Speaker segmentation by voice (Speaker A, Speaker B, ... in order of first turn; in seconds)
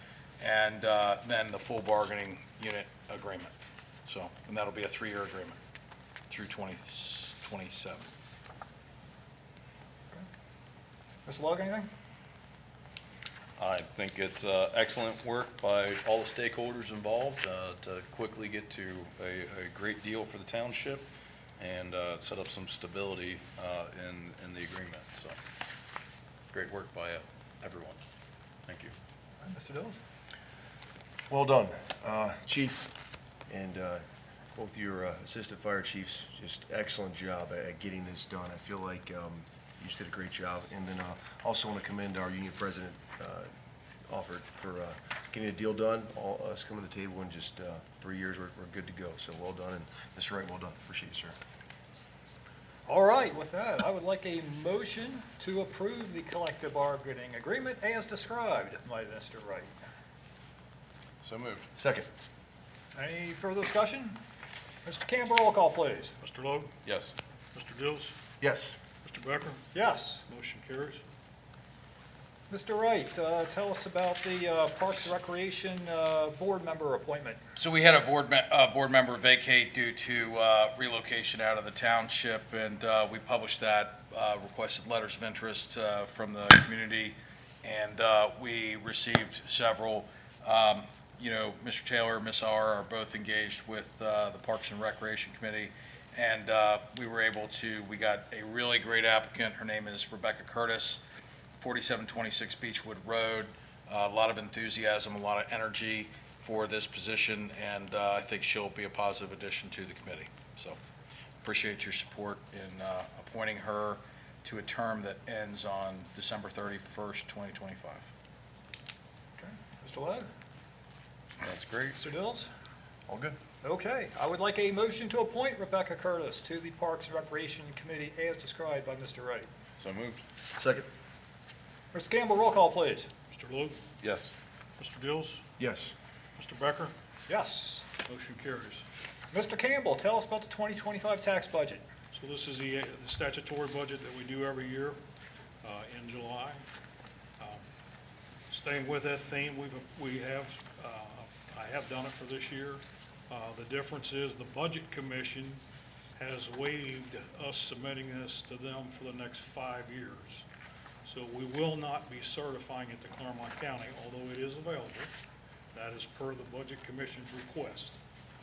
Speaker A: 0.4-3.5, 4.0-5.6, 6.3-8.1, 77.6-101.0, 101.6-110.8, 111.4-118.0
Speaker B: 11.2-11.9, 29.4-30.0, 52.9-59.7, 62.9-64.2, 64.8-66.1, 69.7-70.2, 72.5-77.4, 119.4-120.3, 122.0-122.5, 123.6-129.5, 131.9-133.1, 137.3-137.9, 139.3-141.8
Speaker C: 13.6-21.1, 21.6-25.4, 26.5-28.0, 28.7-28.9, 61.2-61.7, 66.8-67.1, 121.4-122.0, 129.8-130.2, 134.0-134.3
Speaker D: 31.3-32.9, 33.5-34.0, 34.5-43.5, 44.1-51.4, 61.8-62.0, 68.4-68.8, 123.1-123.3, 130.6-130.9, 135.6-135.9
Speaker E: 66.2-66.7, 67.5-68.1, 69.0-69.7, 70.3-71.0, 133.3-133.8, 134.8-135.4, 136.4-136.9, 138.0-138.8, 142.1-145.0, 145.6-146.6, 148.5-155.6, 156.2-160.4, 161.0-165.1, 165.7-168.0